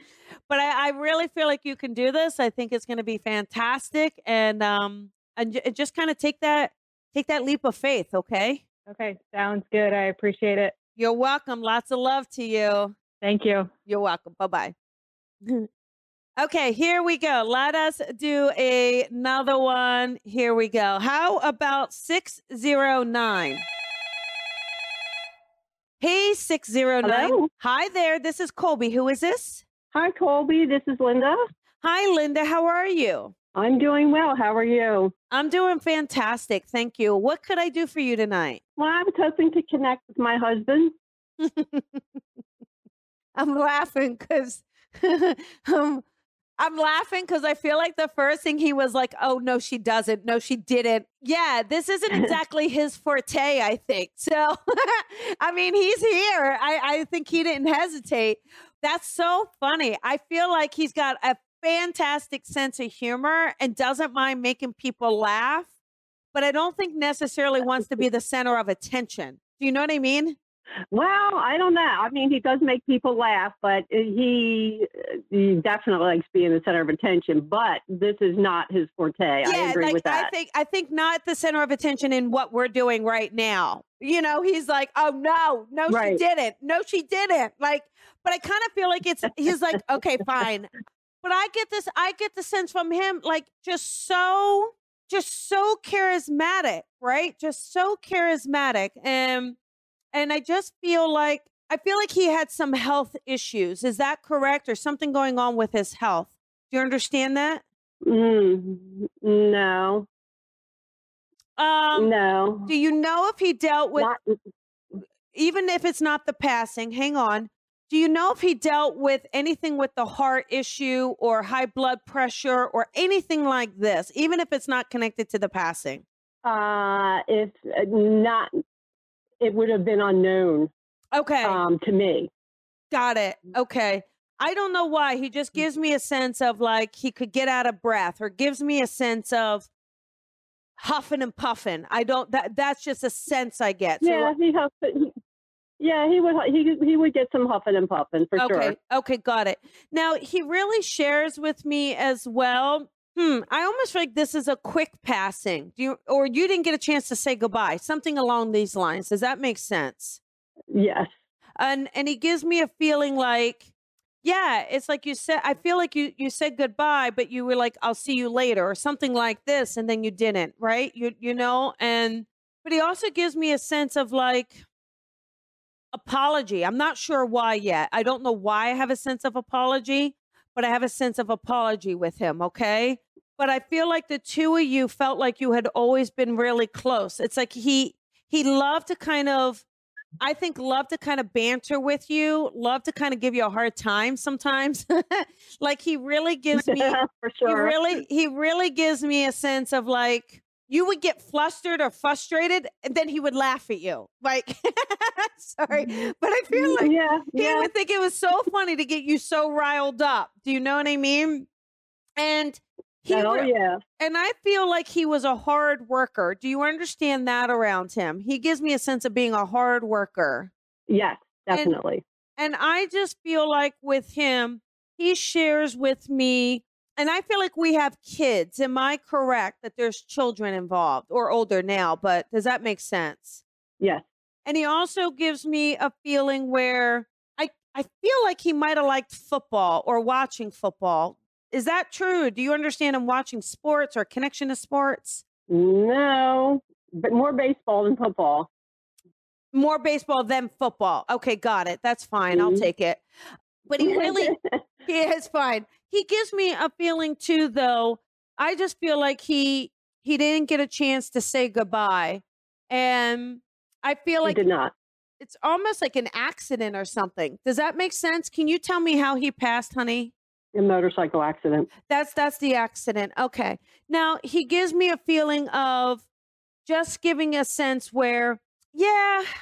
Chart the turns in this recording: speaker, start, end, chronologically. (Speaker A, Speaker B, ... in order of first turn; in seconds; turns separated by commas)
Speaker A: 0.5-8.6, Speaker B: 8.9-10.8, Speaker A: 11.0-12.9, Speaker B: 13.2-13.7, Speaker A: 13.9-14.7, Speaker A: 16.4-23.6, Speaker A: 26.0-29.6, Speaker C: 27.0-27.5, Speaker C: 29.9-31.4, Speaker A: 31.8-33.3, Speaker C: 33.5-35.1, Speaker A: 35.3-38.6, Speaker C: 38.8-41.0, Speaker A: 41.4-42.0, Speaker A: 43.4-46.0, Speaker A: 46.6-65.7, Speaker A: 66.3-70.4, Speaker C: 70.9-80.3, Speaker A: 79.4-90.7, Speaker C: 85.9-86.2, Speaker A: 91.2-99.6, Speaker A: 100.1-107.6, Speaker C: 108.0-110.1, Speaker A: 111.6-112.1, Speaker C: 112.0-112.7, Speaker A: 112.7-114.1, Speaker C: 114.0-114.3, Speaker A: 115.3-126.0, Speaker C: 126.5-128.5, Speaker C: 129.4-130.7, Speaker A: 131.1-131.6, Speaker C: 131.4-132.3, Speaker A: 132.9-139.7, Speaker A: 140.8-144.3, Speaker C: 144.0-145.1, Speaker C: 145.8-148.8, Speaker A: 148.4-160.2, Speaker C: 160.7-161.1, Speaker A: 161.6-163.7, Speaker A: 164.2-174.6, Speaker A: 175.9-189.7, Speaker A: 190.2-211.5, Speaker C: 196.5-197.8, Speaker C: 206.5-207.7, Speaker A: 212.2-220.5, Speaker C: 213.1-213.8, Speaker C: 220.9-222.0, Speaker A: 222.4-233.4, Speaker C: 233.8-234.1, Speaker A: 234.5-245.2, Speaker C: 245.5-248.5, Speaker A: 249.5-253.0, Speaker C: 252.3-252.7, Speaker A: 253.7-254.3, Speaker C: 253.8-254.6, Speaker A: 254.9-264.4, Speaker C: 264.2-264.7, Speaker A: 265.2-270.1, Speaker C: 270.5-271.7, Speaker A: 271.9-276.1, Speaker A: 276.6-279.3